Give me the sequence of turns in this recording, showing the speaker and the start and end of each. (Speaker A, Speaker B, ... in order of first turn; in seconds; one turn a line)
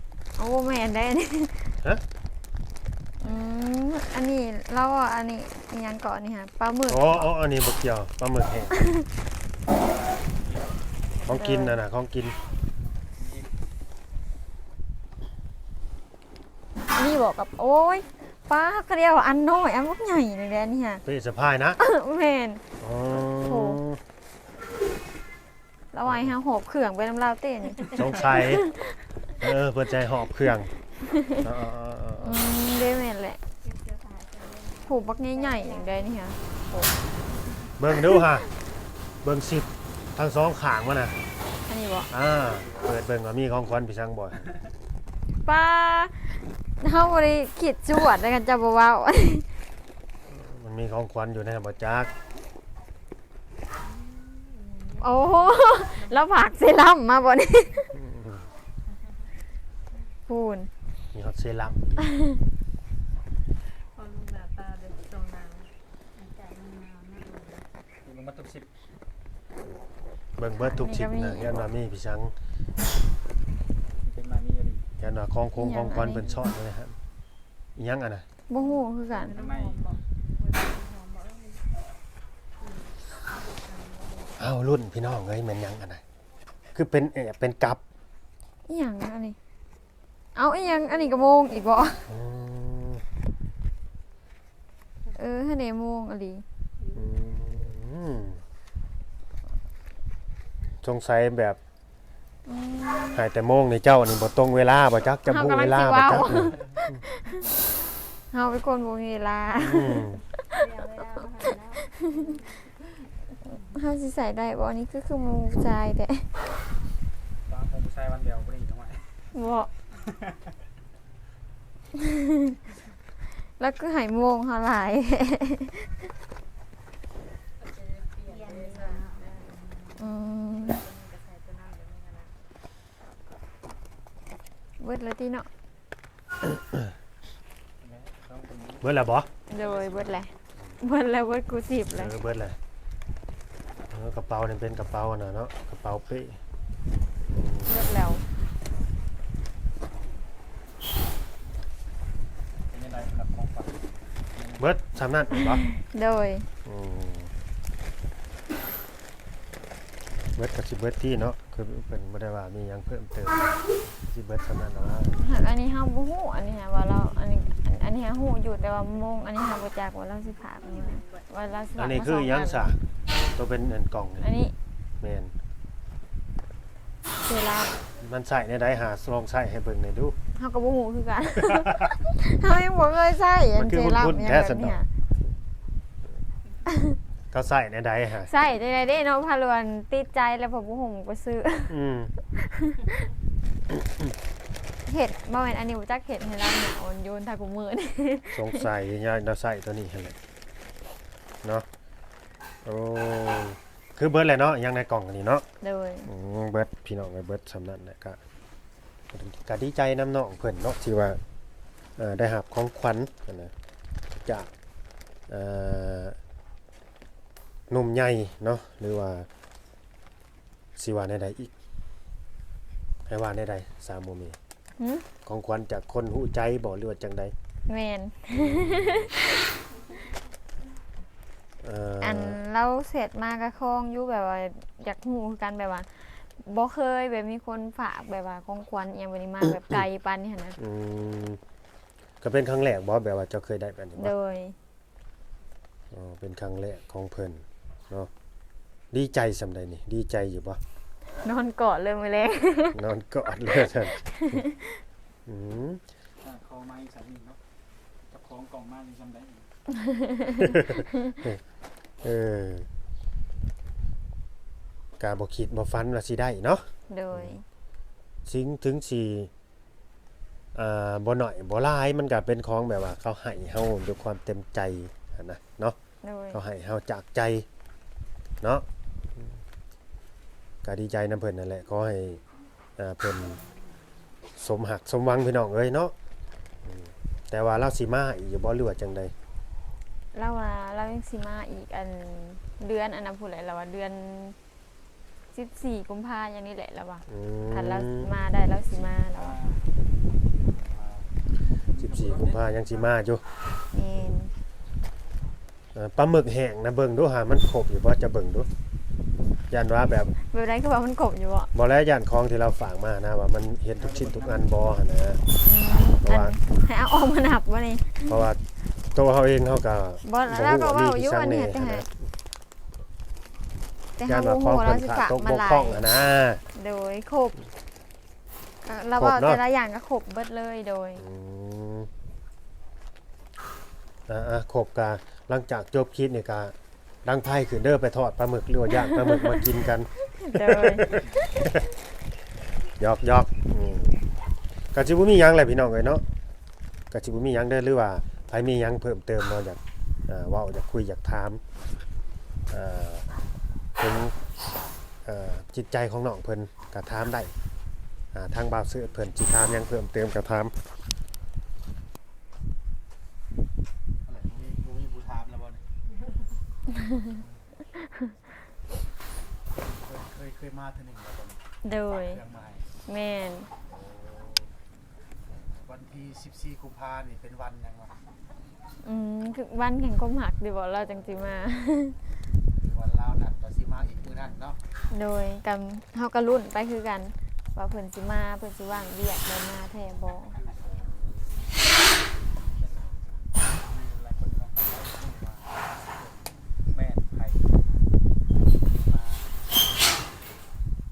Speaker A: 0.3-1.7
Speaker A: 3.2-7.3
Speaker B: 6.9-8.8
Speaker A: 8.8-9.0
Speaker C: 10.2-10.9
Speaker B: 11.2-12.4
Speaker A: 11.3-11.8
Speaker C: 13.1-13.5
Speaker A: 16.9-21.0
Speaker B: 21.0-21.8
Speaker A: 21.8-22.6
Speaker B: 22.8-24.0
Speaker A: 23.2-23.8
Speaker A: 25.9-28.9
Speaker B: 27.9-28.7
Speaker B: 29.4-30.7
Speaker A: 31.0-31.4
Speaker B: 31.4-32.4
Speaker A: 32.2-33.4
Speaker D: 33.6-36.1
Speaker A: 34.9-36.9
Speaker B: 37.8-38.5
Speaker B: 39.2-41.2
Speaker A: 41.7-42.1
Speaker B: 42.1-44.5
Speaker A: 45.4-49.5
Speaker B: 50.3-52.1
Speaker E: 53.8-56.3
Speaker D: 54.5-54.9
Speaker A: 55.0-58.0
Speaker B: 58.1-58.4
Speaker A: 60.3-60.7
Speaker B: 61.1-62.0
Speaker E: 63.8-65.7
Speaker D: 66.1-67.7
Speaker C: 68.0-68.7
Speaker B: 70.4-72.3
Speaker A: 70.5-71.6
Speaker C: 74.0-74.9
Speaker B: 75.0-76.9
Speaker A: 75.5-76.4
Speaker B: 77.8-78.2
Speaker A: 78.5-79.3
Speaker C: 79.1-80.0
Speaker E: 79.2-81.6
Speaker E: 82.6-84.4
Speaker B: 84.4-86.0
Speaker B: 86.7-87.8
Speaker A: 88.7-89.4
Speaker A: 90.3-92.1
Speaker B: 92.1-93.0
Speaker A: 95.1-96.4
Speaker D: 96.8-97.1
Speaker B: 96.9-98.4
Speaker B: 100.8-101.6
Speaker A: 102.5-103.2
Speaker B: 103.1-106.6
Speaker A: 105.2-107.5
Speaker A: 108.3-110.6
Speaker B: 109.6-110.2
Speaker D: 110.5-112.8
Speaker A: 113.5-116.3
Speaker C: 117.5-119.3
Speaker A: 119.3-119.7
Speaker C: 120.1-120.3
Speaker A: 122.2-122.5
Speaker A: 123.6-126.1
Speaker E: 127.6-129.6
Speaker D: 128.2-130.1
Speaker A: 130.0-130.8
Speaker E: 130.6-132.4
Speaker A: 134.8-135.5
Speaker C: 137.8-138.9
Speaker B: 138.8-139.3
Speaker A: 139.5-142.1
Speaker C: 139.5-140.3
Speaker B: 141.9-142.6
Speaker B: 143.9-146.4
Speaker B: 147.3-147.8
Speaker A: 147.7-148.2
Speaker C: 152.7-153.8
Speaker C: 154.3-154.7
Speaker B: 154.6-155.6
Speaker A: 155.6-156.5
Speaker B: 156.6-157.3
Speaker B: 160.3-165.2
Speaker A: 165.2-172.7
Speaker E: 170.3-171.3
Speaker B: 171.8-172.8
Speaker B: 173.3-174.3
Speaker A: 174.2-174.5
Speaker B: 175.0-175.3
Speaker A: 177.2-177.8
Speaker B: 178.0-180.1
Speaker A: 180.3-184.9
Speaker B: 183.6-184.8
Speaker A: 186.7-187.0
Speaker B: 187.3-188.3
Speaker A: 188.2-191.8
Speaker B: 191.7-192.1
Speaker A: 192.3-193.1
Speaker A: 194.8-198.7
Speaker B: 198.3-200.2
Speaker B: 202.6-205.4
Speaker A: 205.6-206.1
Speaker B: 206.0-208.2
Speaker B: 209.1-211.2
Speaker B: 212.0-213.5
Speaker B: 214.2-214.5
Speaker B: 215.3-216.2
Speaker B: 217.7-219.3
Speaker B: 220.8-221.5
Speaker B: 223.1-224.4
Speaker A: 224.8-225.1
Speaker B: 225.2-227.3
Speaker A: 227.7-229.1
Speaker B: 228.3-229.1
Speaker B: 231.6-232.4
Speaker A: 232.0-240.6
Speaker B: 240.6-241.4
Speaker B: 242.2-244.1
Speaker A: 243.9-244.6
Speaker B: 245.9-248.1
Speaker B: 248.9-250.6
Speaker A: 251.2-252.8
Speaker B: 252.7-254.0
Speaker A: 253.9-254.8
Speaker B: 255.3-255.8
Speaker C: 256.2-257.4
Speaker C: 258.1-259.5
Speaker A: 259.8-260.5
Speaker B: 262.0-262.7
Speaker B: 265.0-267.3
Speaker A: 266.9-267.4
Speaker B: 268.2-269.3
Speaker B: 270.5-275.8
Speaker A: 276.0-276.4
Speaker B: 276.3-277.4
Speaker B: 280.6-282.2
Speaker B: 282.8-283.4
Speaker B: 284.4-285.9
Speaker B: 286.6-289.1
Speaker A: 290.1-294.4
Speaker A: 295.3-299.4
Speaker B: 297.1-298.1
Speaker C: 298.7-302.9
Speaker B: 301.8-303.2
Speaker A: 303.7-304.3
Speaker B: 305.7-308.5
Speaker B: 309.5-310.1
Speaker A: 310.1-311.5
Speaker B: 311.5-315.2
Speaker C: 313.8-314.5
Speaker A: 315.4-318.3
Speaker B: 316.0-316.3
Speaker B: 318.1-318.4
Speaker B: 318.9-321.9
Speaker A: 320.0-321.9
Speaker A: 324.0-325.8
Speaker B: 324.1-326.4
Speaker A: 326.5-327.5
Speaker A: 328.6-331.0
Speaker B: 329.0-329.4
Speaker B: 331.0-331.9
Speaker B: 334.1-336.5
Speaker B: 337.0-341.6
Speaker A: 338.8-339.3
Speaker A: 340.0-341.1
Speaker B: 342.8-344.0
Speaker B: 344.7-346.0
Speaker B: 346.9-351.4
Speaker B: 352.5-353.1
Speaker B: 353.8-354.2
Speaker B: 355.0-357.3
Speaker B: 358.1-360.5
Speaker F: 364.1-365.6
Speaker F: 369.8-371.4
Speaker A: 371.6-372.2
Speaker F: 372.1-372.6
Speaker A: 372.9-373.5
Speaker F: 373.7-374.5
Speaker F: 375.6-377.9
Speaker A: 378.8-382.0
Speaker F: 382.6-384.5
Speaker A: 384.9-390.4
Speaker C: 390.2-391.2
Speaker C: 392.2-397.8
Speaker C: 398.5-399.4